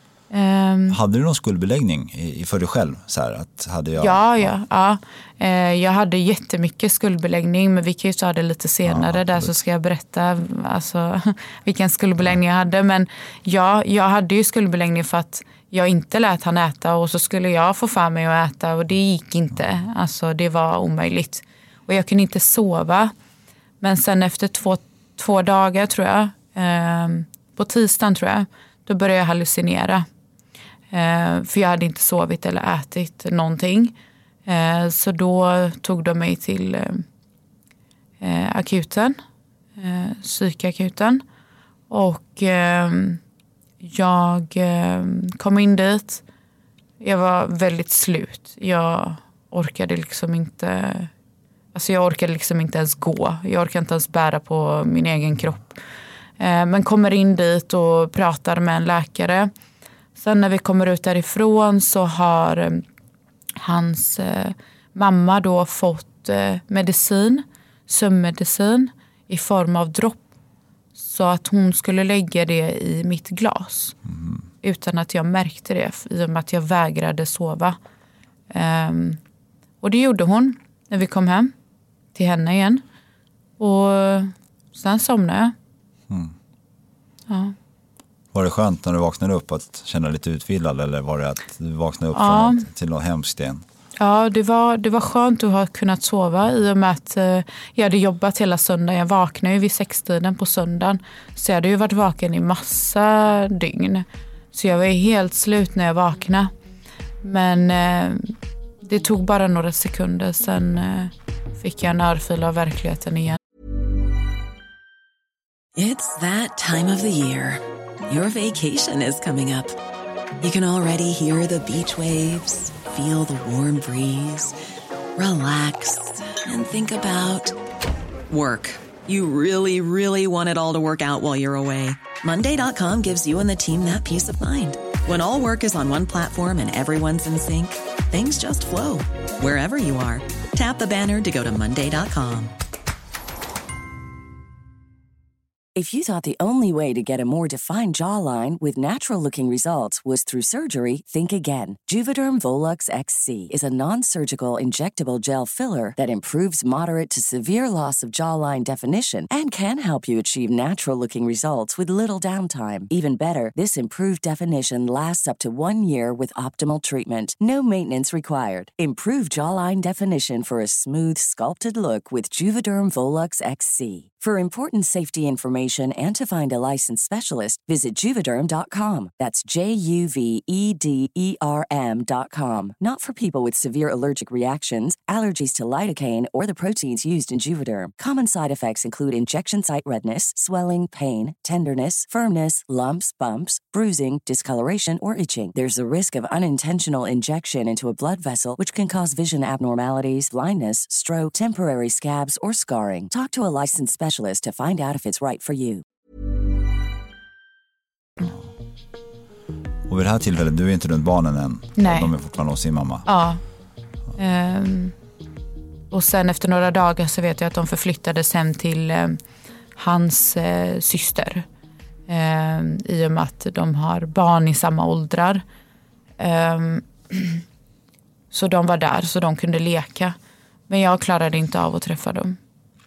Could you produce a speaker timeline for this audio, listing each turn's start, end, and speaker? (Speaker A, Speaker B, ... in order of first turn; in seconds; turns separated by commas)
Speaker A: 0.3-1.0, Speaker B: 0.9-4.5, Speaker A: 4.0-23.1, Speaker B: 8.8-9.6, Speaker A: 23.8-30.1, Speaker A: 30.9-33.9, Speaker A: 34.5-37.0, Speaker A: 38.2-39.2, Speaker A: 39.8-41.2, Speaker A: 41.9-43.2, Speaker A: 43.8-46.2, Speaker A: 47.0-51.1, Speaker A: 51.7-55.7, Speaker A: 56.4-59.5, Speaker A: 60.1-62.8, Speaker A: 63.6-70.2, Speaker A: 71.0-74.0, Speaker A: 74.6-77.8, Speaker A: 78.5-79.2, Speaker A: 79.8-81.5, Speaker A: 82.1-82.8, Speaker A: 83.6-85.5, Speaker B: 86.1-86.3, Speaker A: 87.3-87.5, Speaker B: 88.3-93.6, Speaker A: 92.1-92.6, Speaker A: 94.0-106.5, Speaker A: 107.2-113.4, Speaker C: 115.8-119.8, Speaker C: 120.4-124.5, Speaker C: 125.2-127.5, Speaker C: 128.3-142.5, Speaker D: 145.8-205.8, Speaker B: 209.9-213.1, Speaker A: 211.8-212.1, Speaker A: 213.1-213.4, Speaker A: 214.2-214.9, Speaker A: 215.9-219.2, Speaker A: 219.8-221.4, Speaker A: 222.1-225.4, Speaker A: 226.2-227.4, Speaker A: 228.3-230.2, Speaker A: 230.7-232.4